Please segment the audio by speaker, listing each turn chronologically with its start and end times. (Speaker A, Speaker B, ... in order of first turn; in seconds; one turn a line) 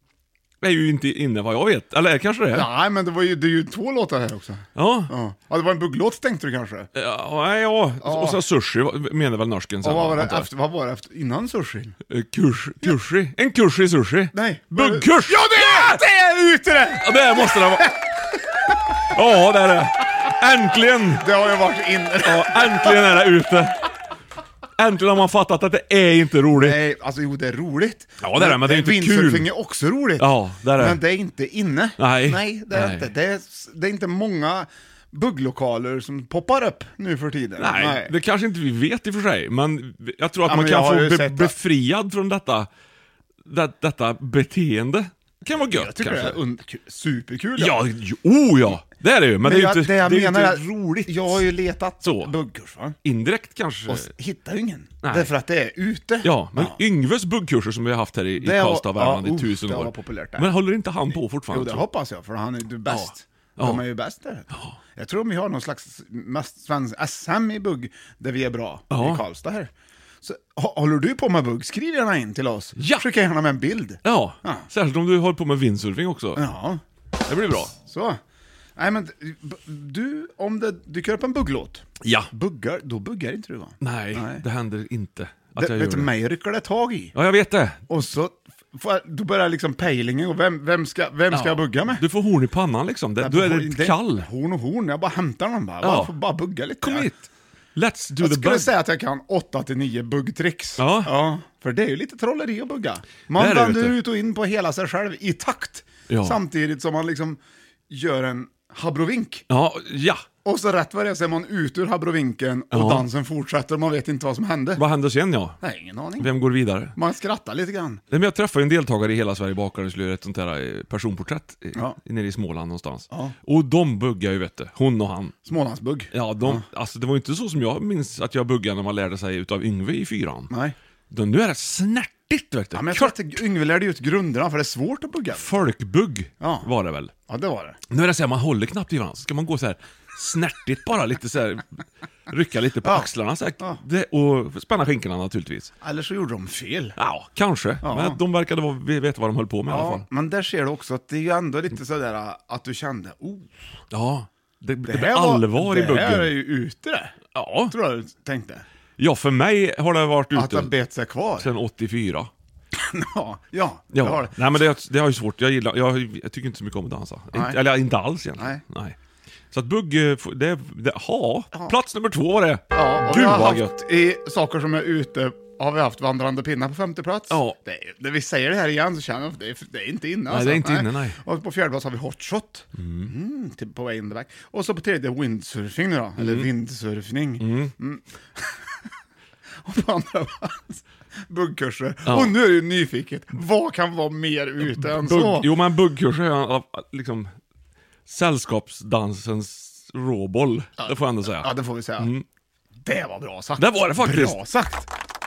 Speaker A: 0.6-2.7
Speaker B: 2.5-6.9
Speaker A: 4.8-5.1
Speaker A: 7.0-10.5
Speaker B: 8.0-8.4
Speaker B: 9.8-12.0
Speaker A: 12.1-16.0
Speaker B: 14.3-17.9
Speaker A: 17.0-17.9
Speaker A: 19.1-21.3
Speaker B: 21.2-23.2
Speaker A: 22.2-23.8
Speaker A: 24.8-26.8
Speaker B: 26.5-38.1
Speaker A: 28.2-29.5
Speaker A: 30.2-31.0
Speaker A: 32.0-33.1
Speaker A: 37.6-42.7
Speaker B: 40.5-41.5
Speaker A: 43.5-46.4
Speaker B: 45.7-47.8
Speaker A: 47.6-51.4
Speaker B: 49.4-53.0
Speaker A: 52.0-52.3
Speaker A: 53.0-54.1
Speaker B: 53.9-56.8
Speaker A: 55.0-55.3
Speaker A: 56.2-61.9
Speaker B: 58.4-60.5
Speaker B: 61.5-69.7
Speaker A: 62.9-63.8
Speaker A: 68.9-69.2
Speaker B: 70.2-74.7
Speaker A: 72.8-73.1
Speaker A: 74.0-76.5
Speaker B: 76.3-76.8
Speaker A: 77.3-77.7
Speaker B: 77.8-78.2
Speaker B: 78.8-84.4
Speaker A: 82.0-82.3
Speaker A: 83.8-86.1
Speaker B: 85.6-87.2
Speaker A: 87.2-87.8
Speaker B: 87.9-92.0
Speaker A: 91.3-94.3
Speaker B: 93.2-97.1
Speaker A: 95.8-96.1
Speaker A: 96.8-98.7
Speaker B: 98.2-107.4
Speaker A: 100.8-101.1
Speaker A: 103.3-104.0
Speaker A: 106.1-106.4
Speaker B: 107.9-109.5
Speaker A: 109.5-110.2
Speaker B: 110.5-114.8
Speaker A: 112.7-113.1
Speaker A: 114.8-115.6
Speaker B: 115.6-116.3
Speaker A: 116.2-117.0
Speaker B: 117.0-118.0
Speaker A: 118.1-125.3
Speaker B: 125.5-126.6
Speaker A: 126.1-130.5
Speaker B: 130.5-130.8
Speaker A: 131.1-133.2
Speaker B: 132.7-135.6
Speaker A: 135.3-137.1
Speaker B: 136.4-136.7
Speaker B: 137.3-137.8
Speaker A: 137.9-145.7
Speaker B: 142.8-143.1
Speaker B: 145.8-147.0
Speaker A: 147.0-150.1
Speaker B: 147.8-148.2
Speaker B: 149.7-153.7
Speaker A: 153.9-156.4
Speaker B: 154.9-157.2
Speaker A: 157.3-157.8
Speaker B: 157.7-158.7
Speaker A: 159.0-160.7
Speaker B: 160.3-161.5
Speaker A: 161.4-162.3
Speaker B: 162.7-164.3
Speaker A: 163.9-169.0
Speaker B: 167.3-167.6
Speaker A: 169.5-173.7
Speaker B: 172.7-188.9
Speaker A: 177.3-177.6
Speaker A: 180.3-181.2
Speaker A: 182.8-183.1
Speaker A: 186.2-186.5
Speaker A: 187.4-187.7
Speaker B: 189.6-195.5
Speaker A: 192.1-192.3
Speaker A: 194.6-197.3
Speaker A: 198.1-202.2
Speaker B: 200.8-202.1
Speaker B: 202.8-204.9
Speaker A: 203.6-204.4